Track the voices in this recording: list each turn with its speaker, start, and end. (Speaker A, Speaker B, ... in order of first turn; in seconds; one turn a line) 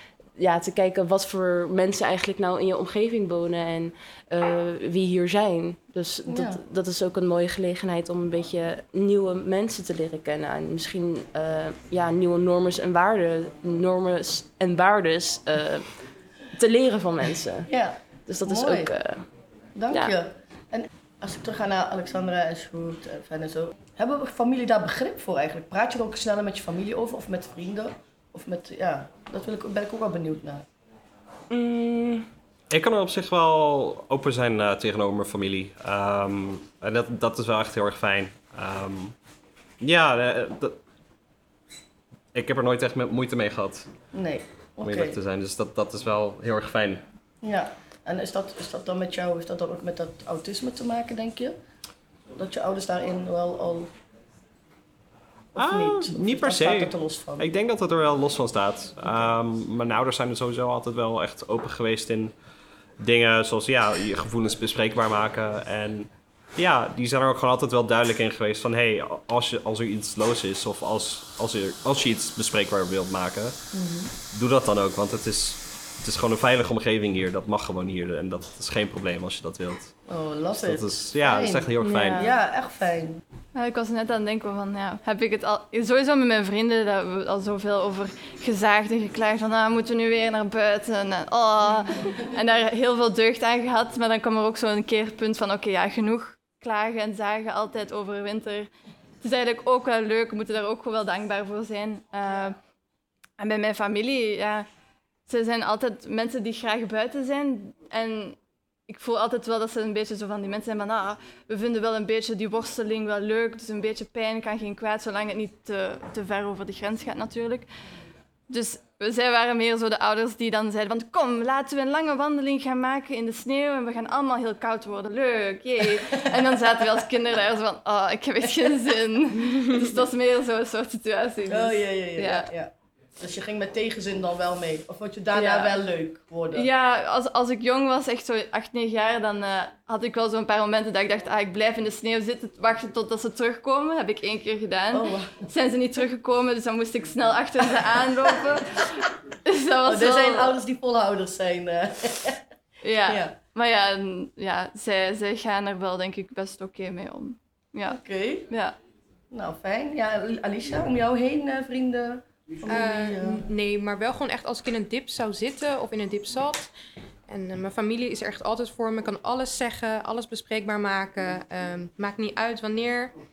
Speaker A: 0.3-19.3
Speaker B: 6.2-6.6
Speaker B: 17.7-18.9
Speaker B: 19.8-30.6
Speaker A: 19.9-20.1
Speaker A: 31.5-32.3
Speaker C: 32.7-39.1
Speaker C: 39.8-40.8
Speaker C: 42.3-43.9
Speaker B: 44.1-45.2
Speaker C: 44.8-47.0
Speaker B: 47.4-51.6
Speaker B: 52.4-53.9
Speaker B: 55.5-57.5
Speaker C: 55.5-62.3
Speaker C: 63.0-73.6
Speaker B: 73.7-74.1
Speaker C: 74.3-80.0
Speaker B: 80.1-83.2
Speaker C: 80.5-82.2
Speaker A: 81.8-82.3
Speaker D: 83.5-102.6
Speaker D: 103.4-104.7
Speaker D: 105.3-108.4
Speaker D: 108.9-117.7
Speaker D: 118.5-132.5
Speaker B: 126.3-126.8
Speaker B: 128.4-128.7
Speaker B: 131.5-136.7
Speaker D: 135.3-135.8
Speaker D: 136.5-150.6
Speaker B: 144.9-145.3
Speaker B: 149.8-152.4
Speaker D: 152.8-158.8
Speaker B: 153.1-153.3
Speaker B: 157.9-158.4
Speaker B: 159.3-163.4
Speaker E: 162.7-166.7
Speaker E: 167.3-173.1